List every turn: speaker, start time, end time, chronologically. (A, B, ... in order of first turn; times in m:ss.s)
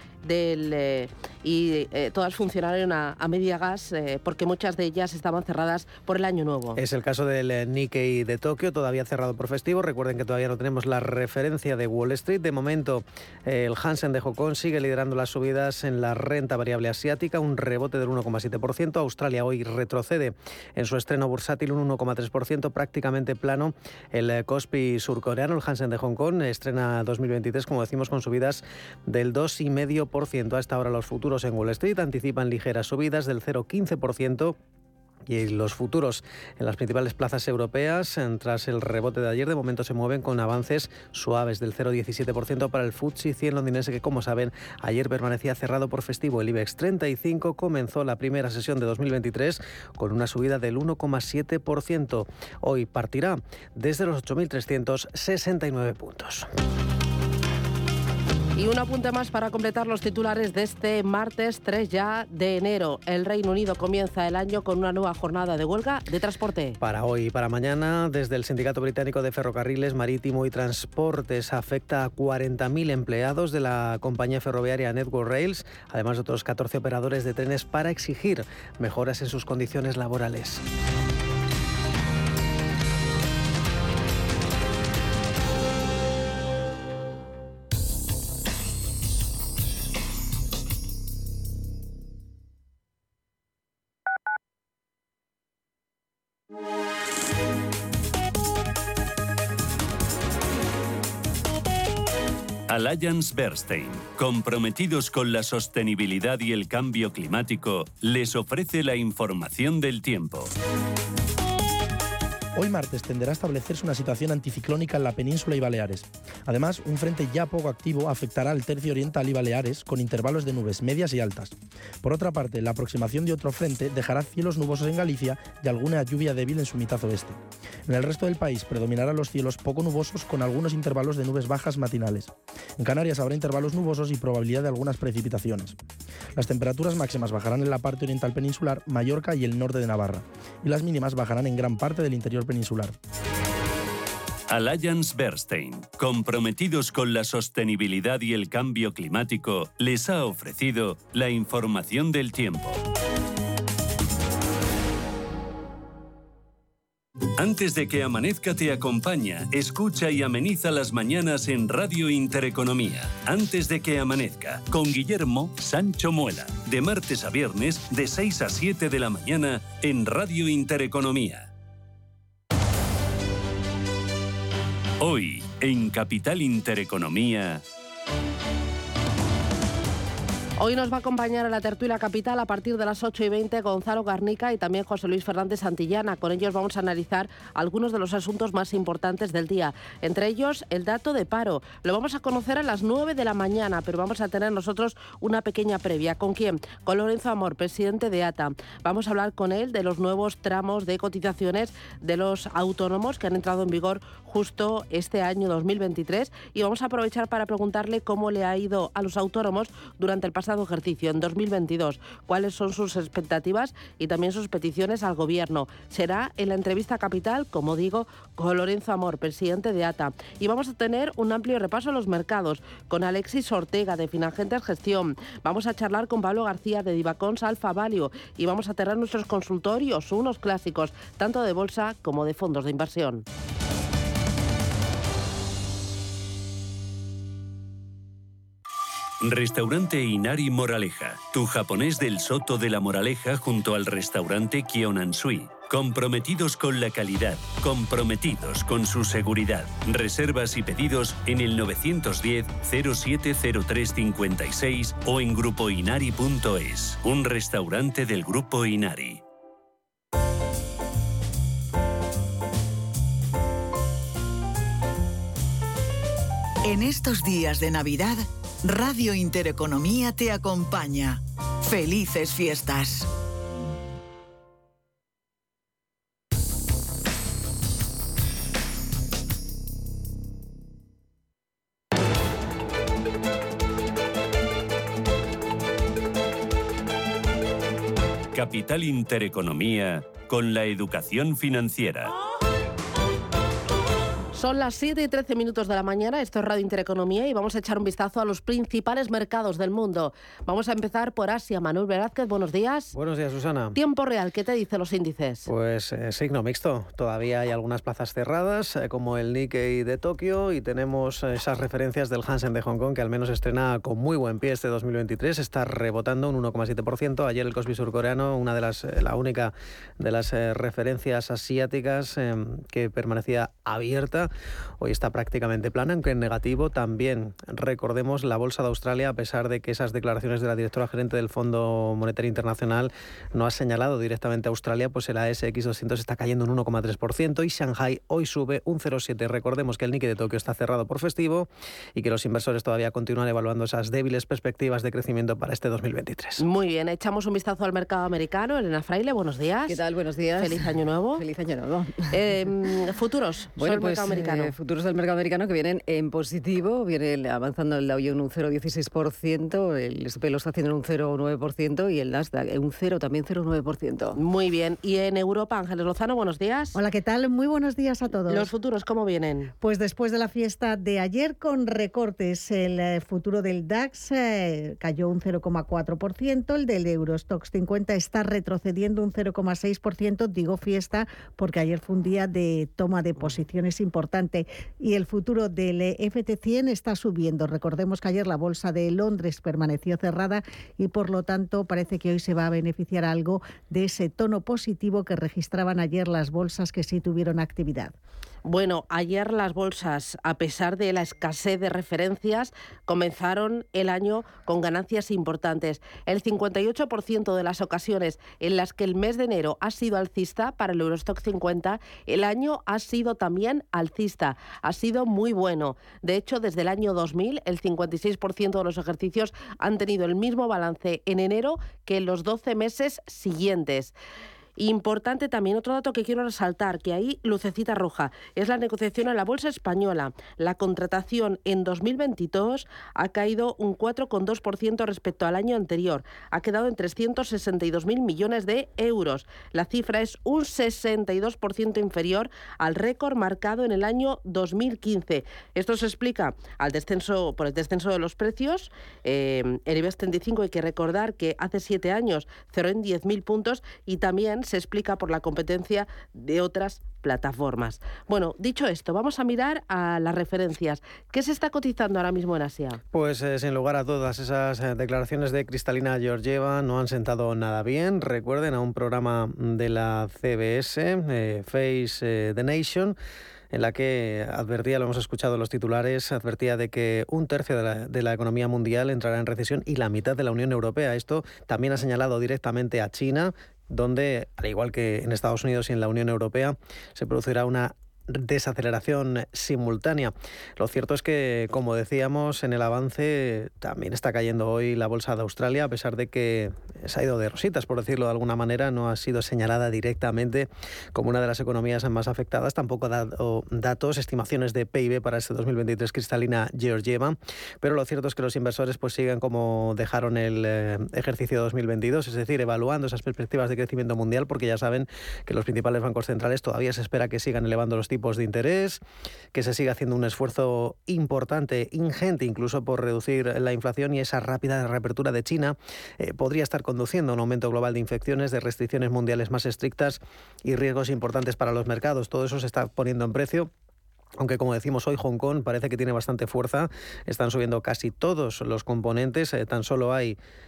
0:00.2-0:06.8 A
0:06.8-0:34.6 B
0:35.3-0:56.5 B
0:58.6-1:06.8 A
1:06.8-1:20.6 B
1:42.7-1:50.5 C
1:52.6-2:15.8 D
2:16.4-2:23.0 D
2:24.5-2:32.8 C
2:37.4-2:51.5 C
2:55.0-2:57.6 C
3:00.6-3:53.2 A
3:59.2-4:19.2 C
4:26.7-4:33.1 E
4:48.3-4:52.1 C
4:54.3-5:02.9 A
5:03.0-5:03.8 B
5:03.8-5:05.5 A
5:05.5-5:46.4 B
5:46.4-5:49.8 A
5:49.7-5:52.6 F
5:50.4-5:51.2 A
5:52.1-5:54.5 A
5:53.6-6:04.2 F
6:04.2-6:06.8 A
6:06.8-6:08.5 G
6:08.3-6:09.5 A
6:09.6-6:38.0 G
6:38.5-7:04.0 A
7:04.6-7:42.8 A
7:42.9-7:53.0 B
7:53.5-8:38.8 B
8:39.3-8:53.5 B
8:54.2-9:00.2 B